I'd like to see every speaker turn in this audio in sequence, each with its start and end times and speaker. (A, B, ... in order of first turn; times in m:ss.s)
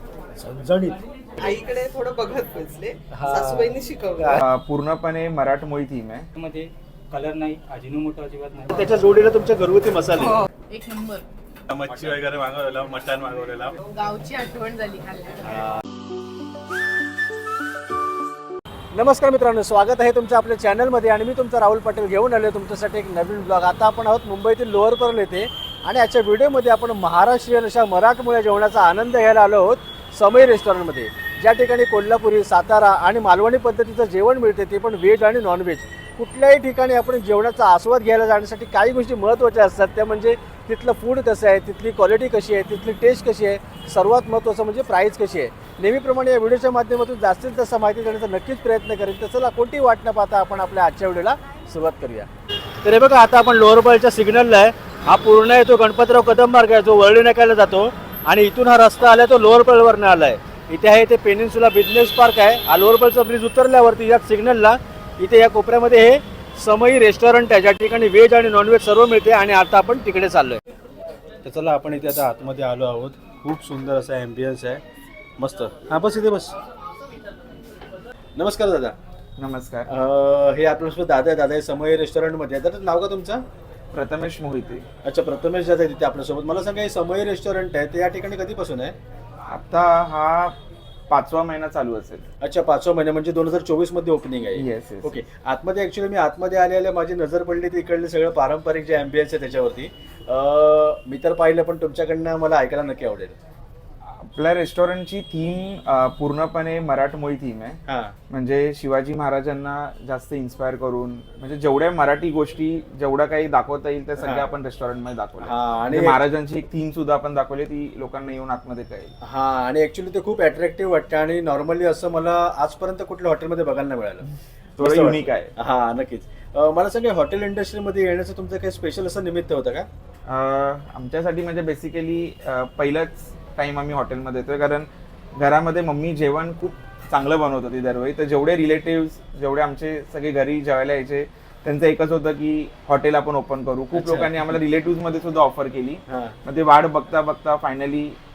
0:00.4-0:01.5 A
0:01.4-0:04.4 B
0:03.1-0:04.4 A
0:04.4-0:06.2 C
0:06.3-0:08.8 D
0:08.7-0:10.4 A
0:10.1-0:10.5 B
0:10.7-0:11.2 E
0:11.7-0:13.8 F
0:13.9-0:15.6 E
0:18.9-0:52.3 A
0:52.8-1:10.6 A
1:11.4-1:14.8 A
1:15.4-1:16.5 A
1:18.4-1:19.0 A
1:19.4-1:19.9 C
1:19.9-1:23.4 A
1:23.9-1:24.8 C
1:25.0-1:28.9 A
1:29.5-1:30.5 C
1:31.1-1:32.2 C
1:32.4-1:43.4 A
1:34.6-1:35.1 C
1:44.1-1:47.8 C
1:47.9-1:48.1 A
1:48.3-1:59.1 C
1:54.2-1:54.5 A
1:55.4-1:56.2 A
1:59.2-2:04.2 A
2:04.8-2:05.5 C
2:04.8-2:09.9 A
2:10.3-2:28.2 C
2:23.9-2:24.6 A
2:26.1-2:26.3 A